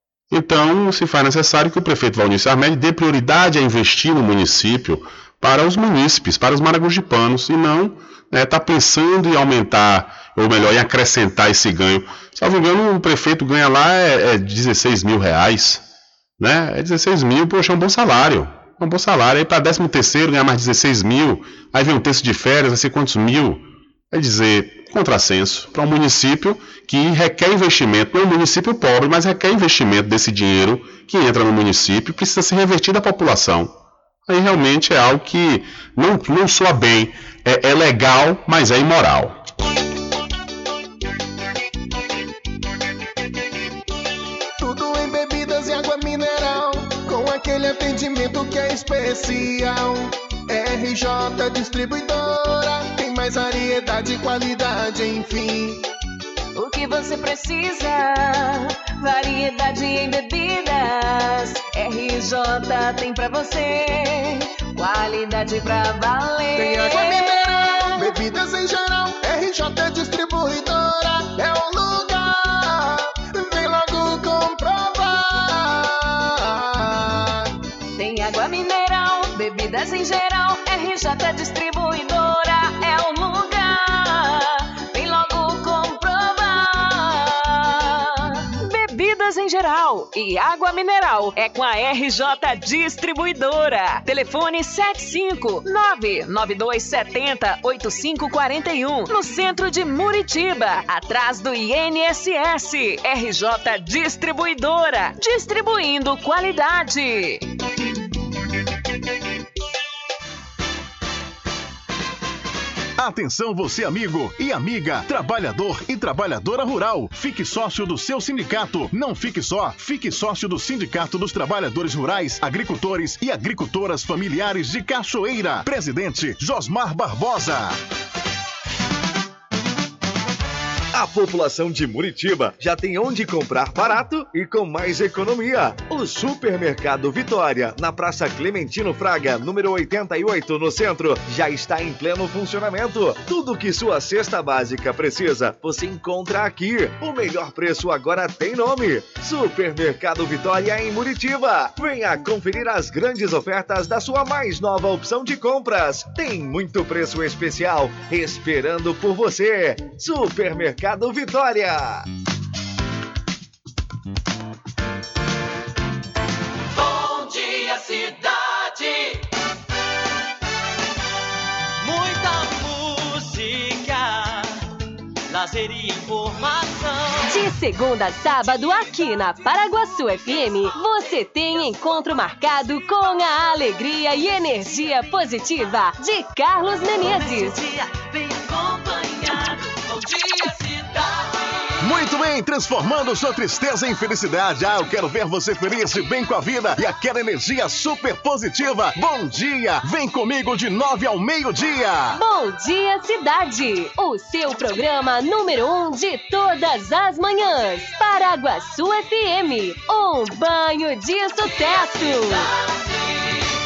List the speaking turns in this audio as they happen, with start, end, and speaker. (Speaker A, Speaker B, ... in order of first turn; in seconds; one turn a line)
Speaker A: 0.3-15.8
Speaker A: 16.4-33.7
Speaker A: 34.3-39.4
Speaker B: 44.6-55.8
Speaker C: 56.5-66.6
Speaker D: 65.5-66.1
Speaker B: 66.5-77.5
Speaker C: 78.0-87.9
Speaker C: 88.5-107.4
Speaker E: 113.0-127.8
Speaker F: 130.9-162.1
Speaker G: 166.8-169.1
Speaker G: 171.8-174.6
Speaker G: 175.3-177.3
Speaker D: 177.3-187.6
Speaker G: 187.1-191.4
Speaker E: 191.8-202.2
Speaker D: 202.1-212.4